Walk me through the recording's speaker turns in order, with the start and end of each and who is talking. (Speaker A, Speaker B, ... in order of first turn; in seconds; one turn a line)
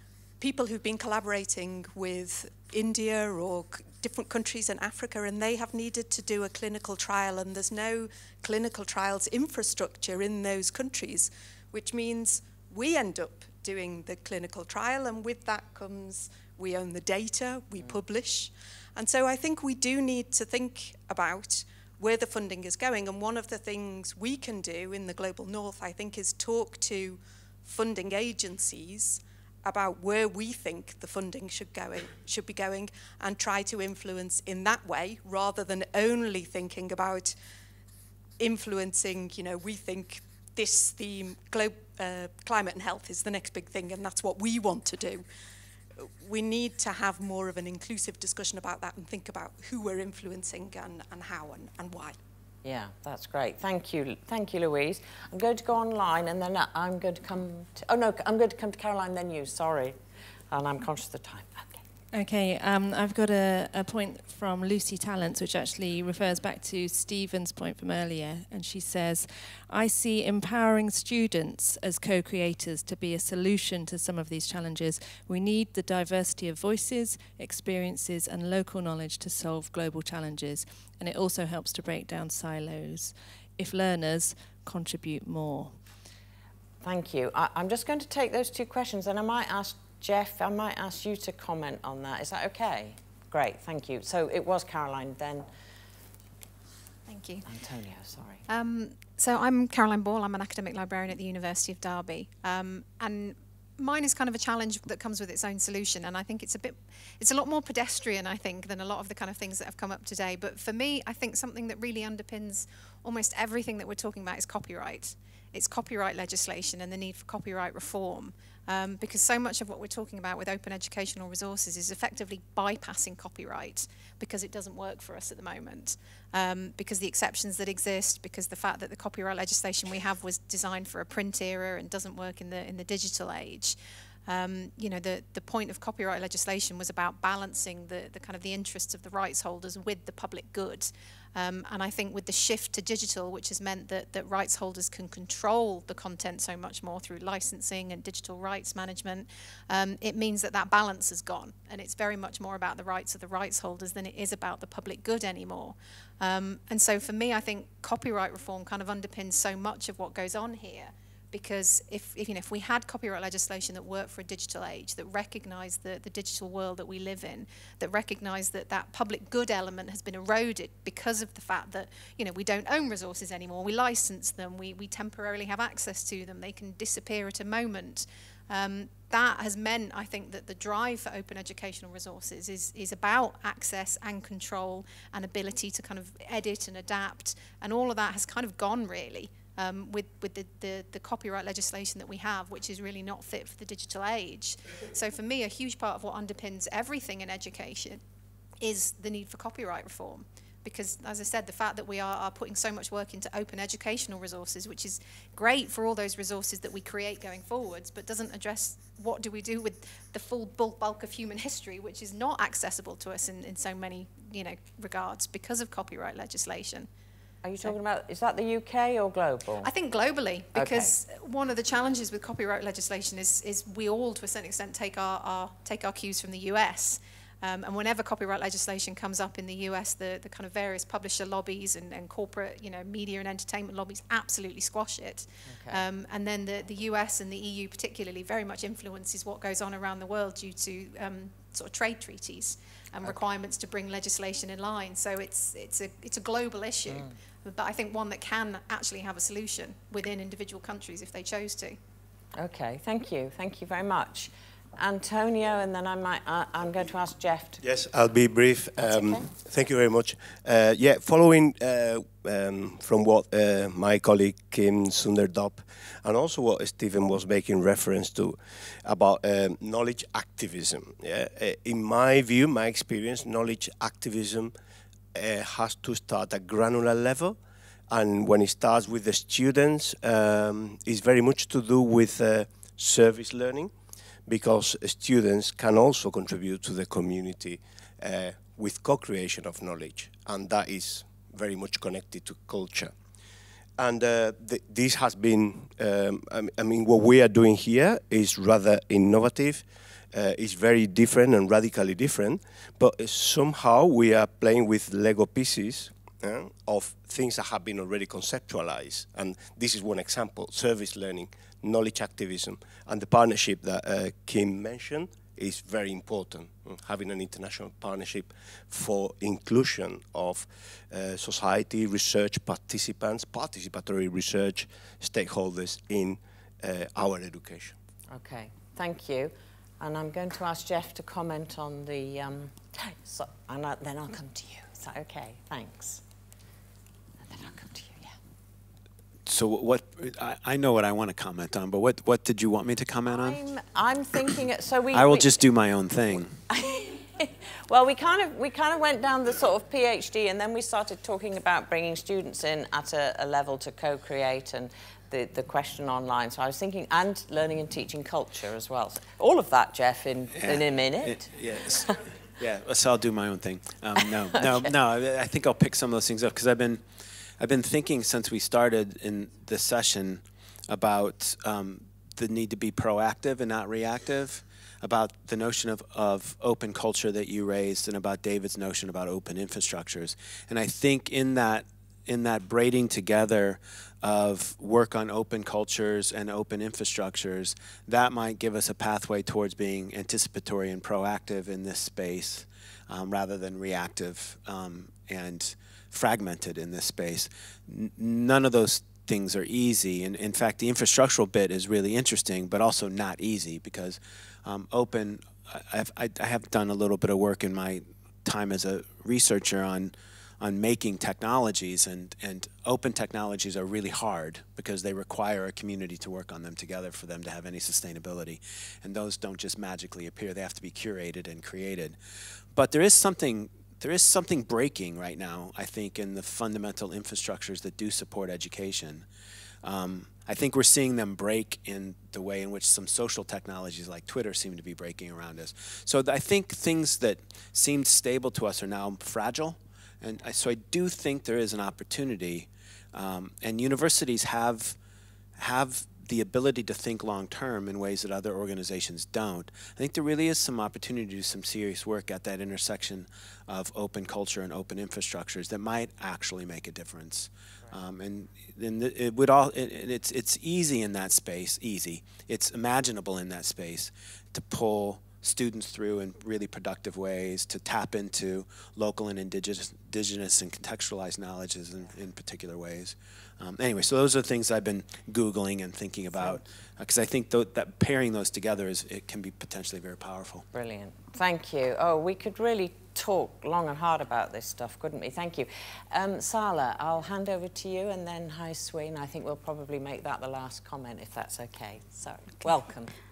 Speaker A: 0.4-37.4
Speaker A: 38.4-45.2
Speaker A: 46.0-52.2
Speaker B: 52.6-60.0
Speaker B: 60.5-61.8
Speaker C: 62.1-85.8
Speaker B: 86.8-95.5
Speaker D: 97.1-97.5
Speaker B: 97.5-98.4
Speaker D: 98.5-198.0
Speaker D: 198.6-216.9
Speaker B: 217.4-219.7
Speaker D: 219.6-251.8
Speaker B: 220.5-220.9
Speaker B: 235.5-235.8
Speaker B: 246.9-247.2
Speaker B: 252.4-257.6
Speaker E: 257.6-274.5
Speaker B: 258.8-259.3
Speaker E: 275.1-277.4
Speaker E: 277.9-283.7
Speaker E: 284.3-292.9
Speaker E: 293.8-327.8
Speaker B: 328.1-336.0
Speaker B: 337.2-338.1
Speaker F: 339.3-343.4
Speaker B: 343.1-361.9
Speaker F: 344.9-346.4
Speaker F: 360.4-422.0
Speaker B: 364.2-364.7
Speaker F: 422.5-429.1
Speaker F: 429.6-444.8
Speaker F: 445.4-480.5
Speaker B: 480.5-492.9